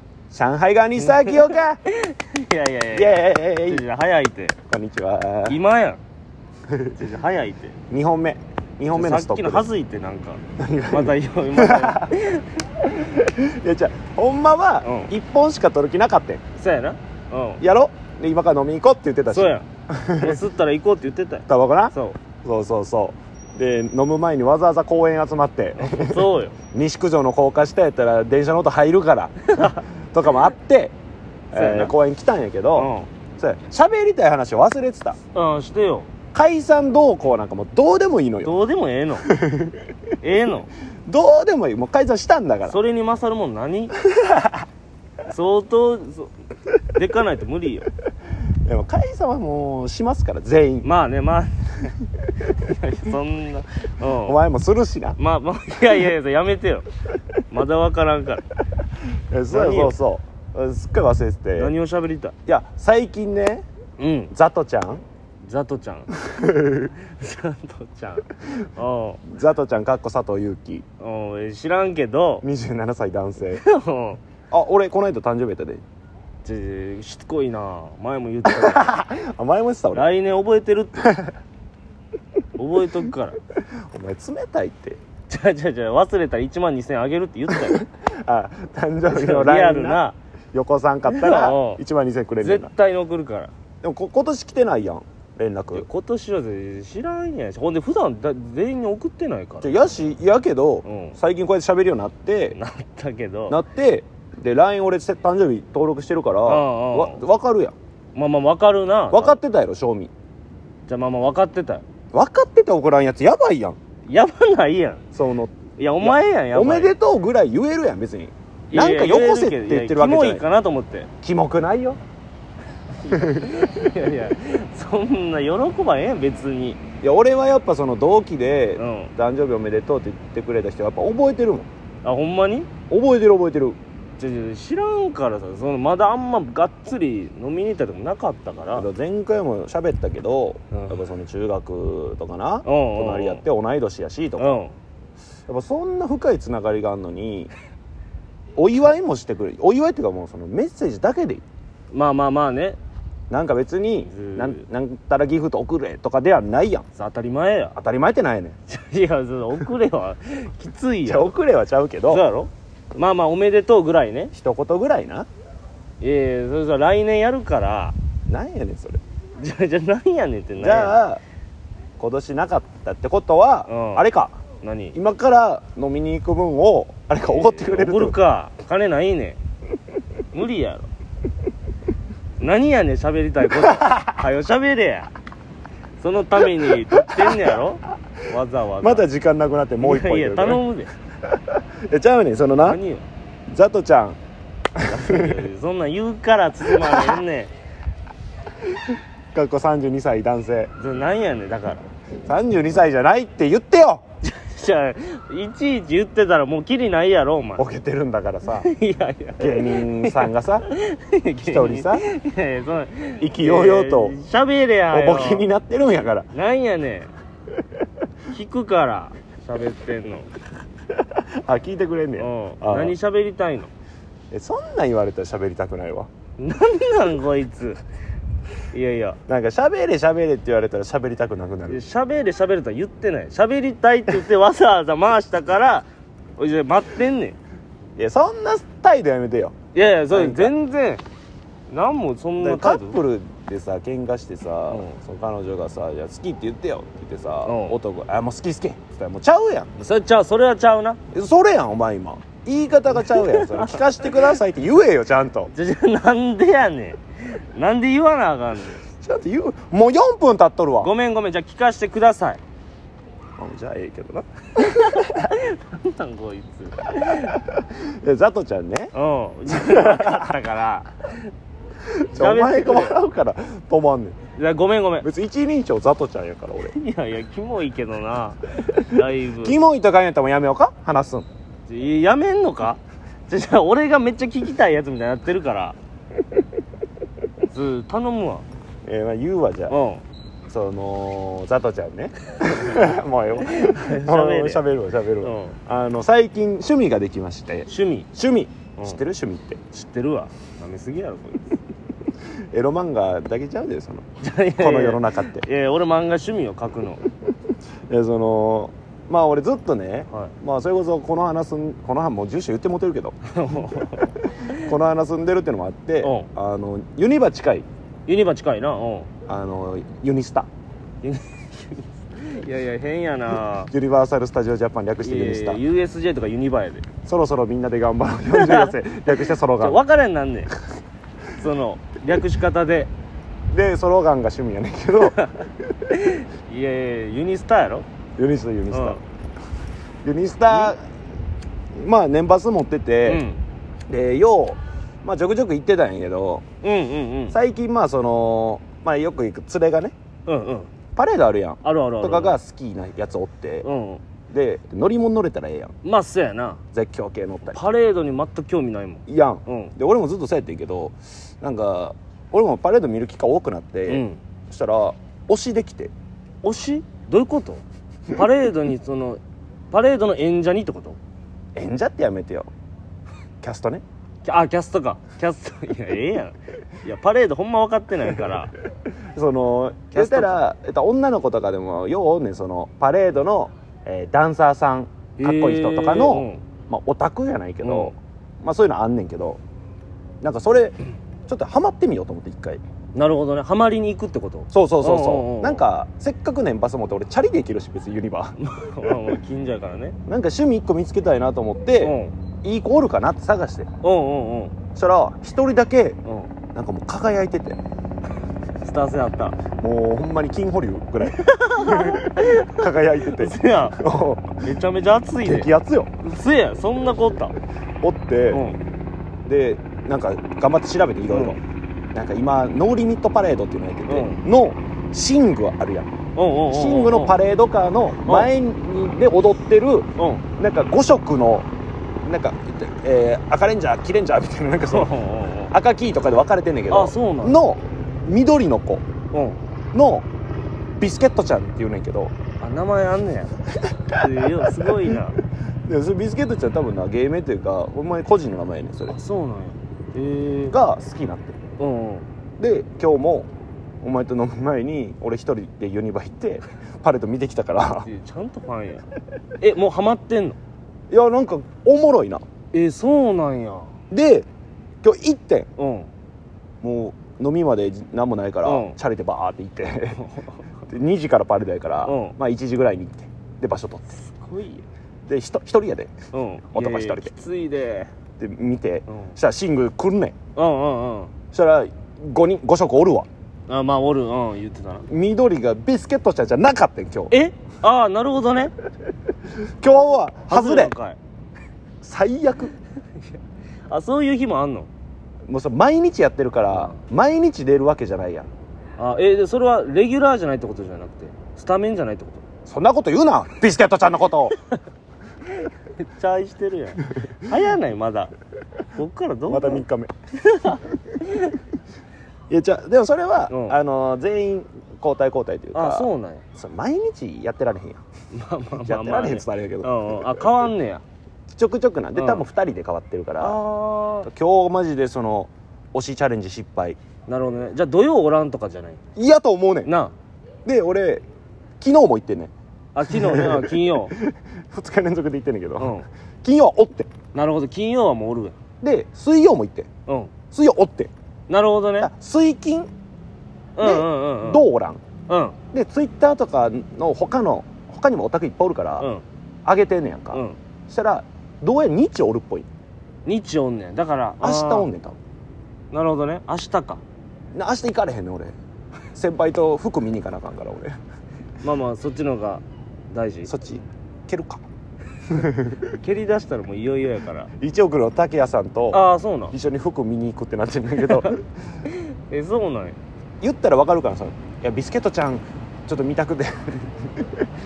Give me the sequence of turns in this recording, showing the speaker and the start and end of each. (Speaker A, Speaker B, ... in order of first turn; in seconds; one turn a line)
Speaker A: 0.3-1.8
Speaker B: 1.0-4.6
Speaker A: 2.9-3.9
Speaker A: 4.7-5.6
Speaker B: 5.5-6.0
Speaker A: 6.7-6.9
Speaker B: 6.9-7.8
Speaker A: 7.9-9.7
Speaker B: 8.9-12.6
Speaker A: 10.6-12.2
Speaker A: 12.8-16.4
Speaker B: 14.8-15.1
Speaker B: 16.6-17.6
Speaker A: 17.6-20.4
Speaker B: 19.3-19.6
Speaker B: 20.2-22.2
Speaker A: 21.5-30.9
Speaker B: 25.8-26.6
Speaker B: 29.5-29.8
Speaker A: 31.5-35.2
Speaker B: 31.5-31.9
Speaker B: 32.8-33.1
Speaker B: 35.3-36.1
Speaker A: 36.3-38.6
Speaker B: 38.4-39.3
Speaker A: 39.2-39.9
Speaker B: 40.2-40.7
Speaker A: 41.0-42.8
Speaker B: 42.6-43.9
Speaker A: 44.0-44.6
Speaker B: 45.2-46.3
Speaker B: 46.9-47.9
Speaker A: 48.6-50.9
Speaker B: 50.8-51.9
Speaker B: 52.5-54.4
Speaker A: 54.2-55.2
Speaker B: 55.1-56.9
Speaker B: 57.5-58.4
Speaker A: 59.3-61.7
Speaker B: 59.5-59.9
Speaker B: 61.5-62.3
Speaker A: 62.5-63.6
Speaker B: 64.0-64.3
Speaker A: 64.3-65.0
Speaker B: 65.4-66.1
Speaker A: 66.2-66.9
Speaker B: 66.9-69.3
Speaker A: 69.2-70.8
Speaker B: 71.0-72.4
Speaker A: 72.4-73.6
Speaker B: 73.5-74.2
Speaker A: 74.5-75.8
Speaker B: 76.4-78.9
Speaker A: 78.4-80.1
Speaker B: 79.9-81.0
Speaker A: 81.0-81.3
Speaker B: 82.5-83.4
Speaker A: 83.9-85.0
Speaker B: 85.3-87.8
Speaker A: 87.5-90.0
Speaker B: 89.1-90.2
Speaker A: 90.5-92.7
Speaker B: 91.1-91.8
Speaker B: 92.4-93.5
Speaker A: 93.8-95.9
Speaker B: 95.7-100.0
Speaker A: 99.6-102.6
Speaker B: 100.8-101.2
Speaker B: 102.5-103.6
Speaker A: 103.5-107.7
Speaker B: 106.5-107.2
Speaker B: 108.1-109.4
Speaker A: 109.1-110.1
Speaker B: 110.9-111.8
Speaker A: 112.1-113.8
Speaker B: 114.1-115.0
Speaker A: 115.1-120.4
Speaker B: 115.8-116.9
Speaker B: 118.7-121.1
Speaker A: 121.2-122.0
Speaker B: 122.9-126.8
Speaker A: 123.1-123.8
Speaker A: 127.0-131.7
Speaker B: 128.8-129.1
Speaker B: 132.0-132.7
Speaker A: 132.9-133.8
Speaker B: 134.2-138.9
Speaker A: 138.7-144.6
Speaker B: 140.7-141.0
Speaker B: 142.6-143.4
Speaker B: 144.4-144.7
Speaker A: 145.5-147.5
Speaker A: 148.6-151.4
Speaker B: 151.9-152.8
Speaker A: 153.3-156.8
Speaker B: 154.0-154.6
Speaker B: 156.9-157.8
Speaker A: 157.8-158.6
Speaker B: 158.7-161.3
Speaker A: 161.0-162.2
Speaker B: 162.1-164.3
Speaker A: 164.3-165.3
Speaker B: 166.0-167.9
Speaker A: 168.3-169.0
Speaker B: 169.4-171.0
Speaker A: 170.6-171.2
Speaker A: 172.0-174.3
Speaker B: 173.7-174.0
Speaker B: 174.6-175.0
Speaker A: 174.9-178.2
Speaker B: 177.2-179.4
Speaker B: 180.3-180.9
Speaker B: 182.4-185.1
Speaker B: 186.0-189.1
Speaker A: 187.0-187.6
Speaker A: 188.8-190.6
Speaker B: 189.8-190.9
Speaker A: 191.3-192.8
Speaker B: 192.6-193.1
Speaker A: 193.5-194.2
Speaker A: 194.8-195.5
Speaker B: 194.8-197.5
Speaker A: 196.6-197.2
Speaker A: 199.3-200.7
Speaker B: 200.8-201.8
Speaker A: 202.2-204.0
Speaker B: 204.2-207.7
Speaker A: 207.6-208.7
Speaker B: 208.5-215.5
Speaker A: 209.4-210.7
Speaker A: 211.4-212.0
Speaker A: 213.2-214.2
Speaker A: 214.9-216.3
Speaker B: 216.3-217.1
Speaker B: 218.3-220.3
Speaker A: 221.1-222.9
Speaker B: 222.2-223.7
Speaker A: 224.3-226.1
Speaker B: 226.4-227.8
Speaker B: 228.7-229.2
Speaker A: 229.3-231.8
Speaker B: 231.7-237.4
Speaker A: 238.0-239.6
Speaker B: 239.7-241.0
Speaker A: 240.1-240.5
Speaker B: 241.7-243.0
Speaker A: 242.4-249.7
Speaker B: 244.7-244.9
Speaker B: 247.4-247.8
Speaker B: 249.8-251.0
Speaker A: 251.1-255.5
Speaker B: 252.9-254.3
Speaker B: 255.5-258.8
Speaker A: 259.0-260.9
Speaker B: 260.8-262.4
Speaker A: 263.4-265.3
Speaker B: 264.6-267.4
Speaker A: 267.1-268.9
Speaker B: 268.9-271.3
Speaker A: 269.5-270.3
Speaker A: 272.1-274.2
Speaker B: 272.1-273.0
Speaker B: 274.3-275.1
Speaker A: 275.0-276.7
Speaker B: 276.6-279.6
Speaker A: 278.9-281.3
Speaker B: 281.7-285.8
Speaker B: 287.5-288.4
Speaker A: 288.8-289.8
Speaker B: 289.7-290.0
Speaker A: 290.5-299.6
Speaker B: 293.4-294.6
Speaker B: 295.2-295.6
Speaker B: 297.7-298.1
Speaker B: 299.7-301.6
Speaker A: 302.5-305.5
Speaker B: 304.2-307.0
Speaker A: 307.9-313.2
Speaker B: 313.3-314.7
Speaker A: 314.0-317.7
Speaker B: 316.0-316.3
Speaker B: 318.1-319.1
Speaker A: 319.3-320.5
Speaker B: 321.0-323.7
Speaker A: 323.5-325.6
Speaker B: 325.0-326.9
Speaker A: 327.0-329.8
Speaker B: 328.3-330.5
Speaker B: 331.3-332.9
Speaker A: 333.5-335.2
Speaker B: 335.0-337.9
Speaker A: 338.2-339.0
Speaker B: 338.7-339.0
Speaker A: 340.0-340.8
Speaker B: 340.5-340.7
Speaker A: 341.7-343.2
Speaker B: 343.0-343.4
Speaker A: 343.9-346.4
Speaker B: 346.6-347.4
Speaker A: 347.3-349.9
Speaker B: 350.2-350.7
Speaker A: 350.9-353.7
Speaker B: 351.6-352.4
Speaker B: 353.6-354.0
Speaker A: 354.3-355.7
Speaker B: 355.8-356.6
Speaker A: 356.7-357.6
Speaker B: 357.5-359.7
Speaker A: 359.1-365.9
Speaker B: 363.9-364.2
Speaker B: 366.4-369.2
Speaker B: 369.7-371.0
Speaker A: 371.6-372.5
Speaker A: 373.4-373.8
Speaker B: 374.2-378.5
Speaker A: 379.1-389.4
Speaker B: 379.9-380.4
Speaker B: 385.2-386.4
Speaker B: 387.6-387.9
Speaker A: 390.2-392.6
Speaker B: 392.9-395.6
Speaker A: 394.5-398.4
Speaker B: 398.4-400.0
Speaker A: 400.1-403.7
Speaker B: 401.8-402.1
Speaker B: 403.8-404.6
Speaker A: 404.7-406.0
Speaker B: 406.0-406.3
Speaker A: 406.5-407.6
Speaker B: 408.6-409.4
Speaker A: 409.5-414.4
Speaker B: 411.2-413.8
Speaker B: 414.4-417.3
Speaker A: 415.2-415.9
Speaker A: 417.8-418.4
Speaker B: 418.3-418.6
Speaker A: 419.2-421.4
Speaker B: 421.1-421.4
Speaker A: 421.9-425.9
Speaker B: 423.9-424.2
Speaker B: 426.1-427.1
Speaker A: 426.5-431.5
Speaker B: 430.0-430.2
Speaker A: 432.0-434.9
Speaker B: 434.6-435.5
Speaker A: 435.5-438.8
Speaker B: 436.7-437.4
Speaker B: 439.1-439.4
Speaker A: 439.7-440.1
Speaker A: 440.8-442.1
Speaker B: 442.4-445.2
Speaker A: 445.6-449.0
Speaker B: 448.9-450.5
Speaker A: 450.5-451.4
Speaker B: 451.6-452.1
Speaker A: 452.4-453.3
Speaker A: 453.8-457.9
Speaker B: 457.8-460.4
Speaker A: 460.9-462.2
Speaker B: 462.5-463.7
Speaker A: 463.9-464.2
Speaker A: 464.8-465.5
Speaker B: 465.6-465.9
Speaker A: 466.6-470.0
Speaker B: 468.4-468.8
Speaker B: 469.9-470.5
Speaker A: 470.7-473.9
Speaker B: 471.8-472.1
Speaker B: 473.9-474.6
Speaker A: 475.1-475.9
Speaker B: 476.1-477.9
Speaker A: 476.5-477.1
Speaker A: 478.2-480.1
Speaker B: 478.9-479.1
Speaker B: 480.3-481.2
Speaker A: 481.3-483.1
Speaker B: 483.5-484.9
Speaker A: 484.9-487.1
Speaker B: 487.1-488.5
Speaker A: 489.4-490.7
Speaker B: 490.2-491.0
Speaker A: 491.8-492.5
Speaker B: 493.7-494.7
Speaker A: 495.3-498.3
Speaker B: 496.5-496.8
Speaker B: 498.8-502.3
Speaker A: 502.4-504.4
Speaker B: 504.3-504.6
Speaker B: 505.3-508.1
Speaker B: 508.7-509.6
Speaker A: 509.3-509.9
Speaker B: 510.2-510.6
Speaker A: 512.3-517.8
Speaker B: 513.3-513.6
Speaker B: 515.5-516.2
Speaker B: 518.1-520.8
Speaker A: 518.6-520.5
Speaker A: 521.3-523.4
Speaker B: 521.9-522.3
Speaker B: 523.2-524.1
Speaker A: 524.0-526.8
Speaker B: 527.1-528.8
Speaker A: 529.0-529.7
Speaker B: 529.6-529.9
Speaker A: 530.4-531.0
Speaker A: 531.6-532.3
Speaker B: 532.7-533.9
Speaker A: 532.9-536.9
Speaker B: 535.6-535.9
Speaker B: 537.1-538.4
Speaker A: 538.6-539.7
Speaker B: 539.9-540.2
Speaker A: 540.3-540.9
Speaker B: 541.3-541.9
Speaker A: 541.8-542.7
Speaker B: 543.6-544.4
Speaker A: 543.6-544.8
Speaker B: 545.1-545.4
Speaker A: 545.5-548.9
Speaker B: 548.8-549.0
Speaker A: 549.4-552.5
Speaker B: 550.1-550.4
Speaker B: 553.0-554.7
Speaker A: 554.2-555.0
Speaker B: 555.7-556.8
Speaker A: 557.3-558.3
Speaker A: 558.9-560.7
Speaker B: 561.4-563.3
Speaker A: 563.2-564.4
Speaker A: 565.1-565.7
Speaker B: 565.6-567.3
Speaker A: 567.4-571.2
Speaker B: 568.7-569.3
Speaker B: 570.8-571.1
Speaker B: 571.6-572.8
Speaker A: 573.2-577.3